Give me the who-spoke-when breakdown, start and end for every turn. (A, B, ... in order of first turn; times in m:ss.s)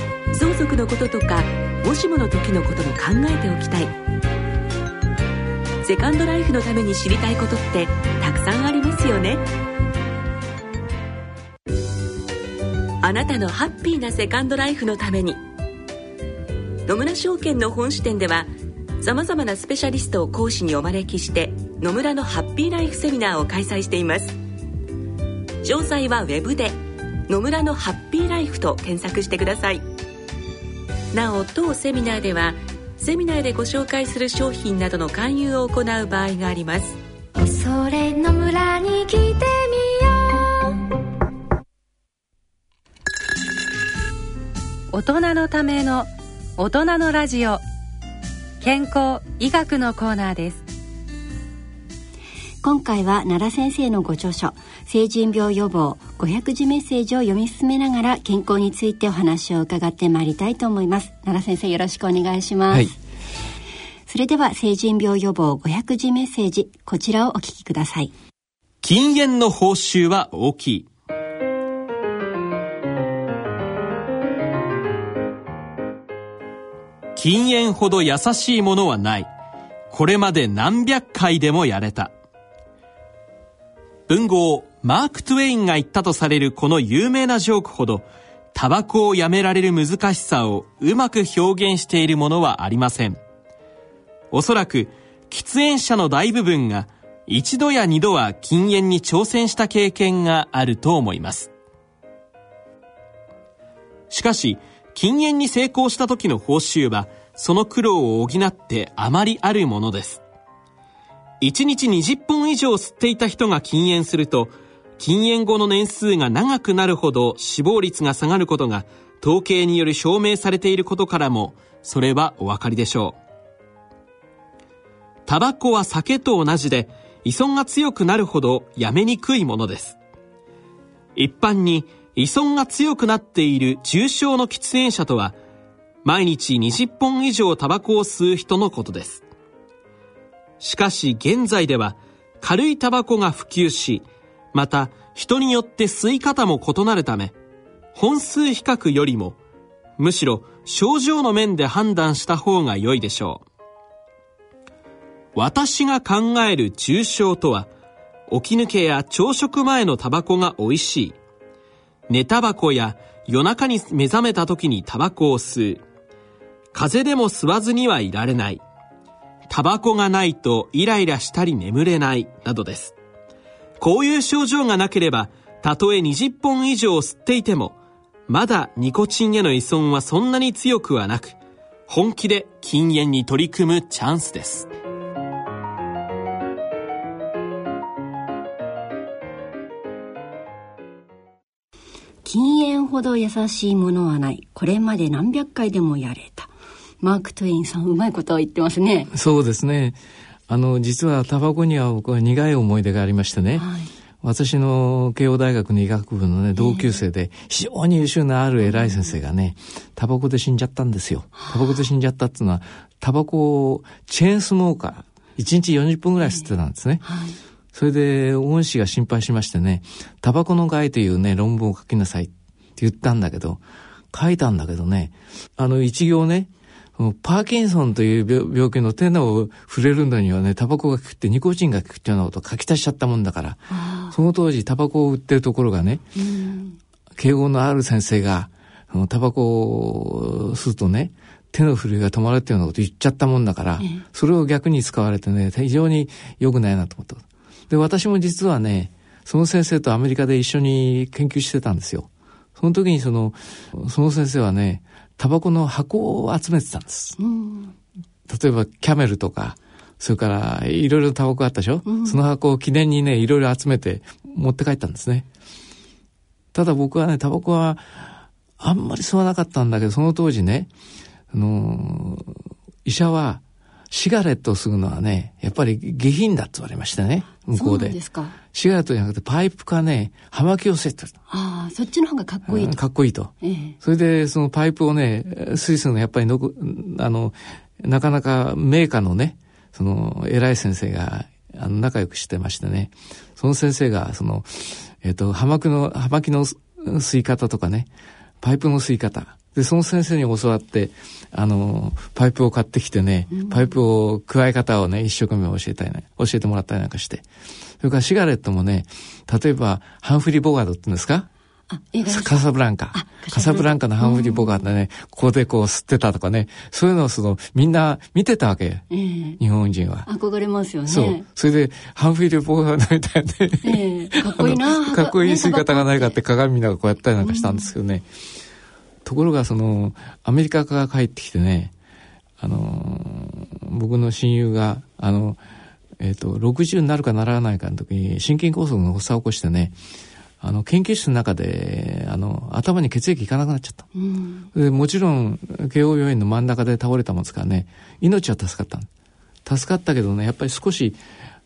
0:00.3-0:04.0 A
0:05.8-0:09.4 A
0:13.0-0:15.4 A
0:16.9-0:24.4 A
0:25.6-0:29.9 A
0:31.1-0:37.0 A
0:37.4-0:40.9 B
0:44.9-0:47.6 C
0:48.6-0:50.6 C
0:52.6-1:03.0 D
1:04.1-1:08.1 D
1:08.8-1:10.9 E
1:17.2-1:19.3 E
1:19.9-1:22.1 E
1:24.1-1:33.2 E
1:34.3-1:41.5 E
1:44.1-1:50.2 E
1:51.4-2:03.2 E
2:05.3-2:10.0 E
2:11.2-2:15.4 E
2:16.0-2:19.2 E
2:20.6-2:27.3 E
2:28.0-2:29.4 E
2:30.0-2:33.4 E
2:35.4-2:37.7 E
2:38.3-2:41.2 E
2:42.1-2:45.8 E
2:46.7-2:48.6 E
2:49.5-2:52.9 E
2:53.8-2:57.8 E
2:58.3-3:01.4 E
3:01.9-3:04.7 E
3:12.2-3:16.5 D
3:17.0-3:19.1 D
3:19.1-3:20.0 F
3:20.5-3:23.7 F
3:23.6-3:23.9 D
3:24.2-3:37.0 F
3:26.6-3:26.9 D
3:28.7-3:29.1 D
3:31.4-3:31.7 D
3:37.0-3:37.4 D
3:37.7-3:43.6 F
3:44.1-3:56.0 F
3:53.7-3:54.2 D
3:56.2-3:56.8 D
3:57.2-4:17.2 F
4:03.8-4:04.0 D
4:17.2-4:17.7 D
4:18.3-4:25.3 F
4:21.9-4:22.2 D
4:26.5-4:30.7 F
4:31.3-4:38.0 F
4:37.5-4:38.4 D
4:38.5-4:41.2 F
4:41.3-4:42.8 D
4:42.5-4:57.9 F
4:43.4-4:43.8 D
4:58.4-5:07.2 F
5:03.3-5:03.7 D
5:07.8-5:11.3 F
5:11.7-5:12.4 D
5:12.1-5:18.9 F
5:12.9-5:14.6 D
5:18.9-5:19.4 D
5:19.4-5:20.1 F
5:20.1-5:21.2 D
5:20.9-5:28.1 F
5:23.6-5:26.2 D
5:27.2-5:27.7 D
5:29.0-5:31.7 F
5:32.4-5:35.4 F
5:36.0-5:39.8 F
5:40.4-5:43.9 F
5:44.0-5:44.5 D
5:44.5-5:48.9 F
5:49.4-5:51.0 F